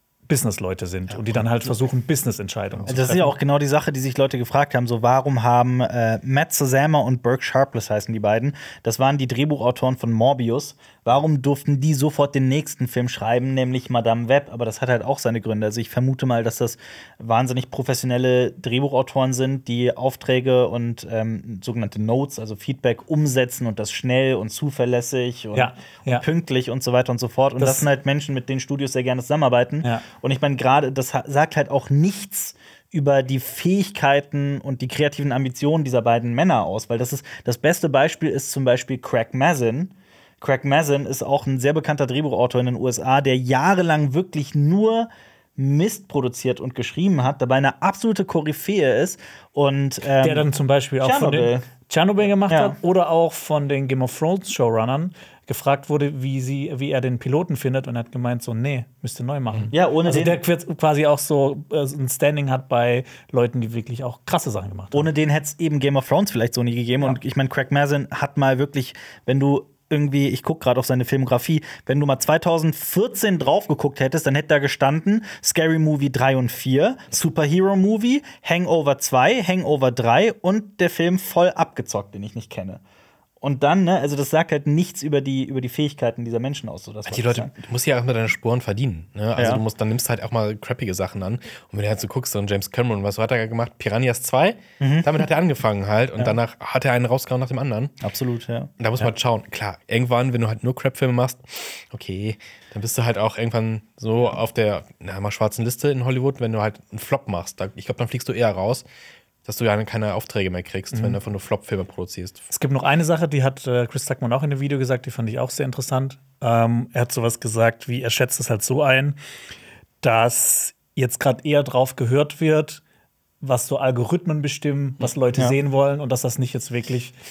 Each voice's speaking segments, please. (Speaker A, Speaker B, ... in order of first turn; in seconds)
Speaker A: 0.3-3.3, 25.5-26.3, 27.6-27.9, 50.2-65.1, 110.9-111.2, 112.5-119.2, 120.0-122.8, 123.4-127.2
Speaker B: 1.1-1.7, 2.7-3.1, 87.1-97.9, 98.8-108.8, 109.5-112.4
Speaker C: 2.9-50.5, 51.0-51.6, 52.5-52.8, 59.7-60.4, 64.9-82.8, 83.4-87.5, 89.4-89.6, 94.8-95.1, 98.0-98.7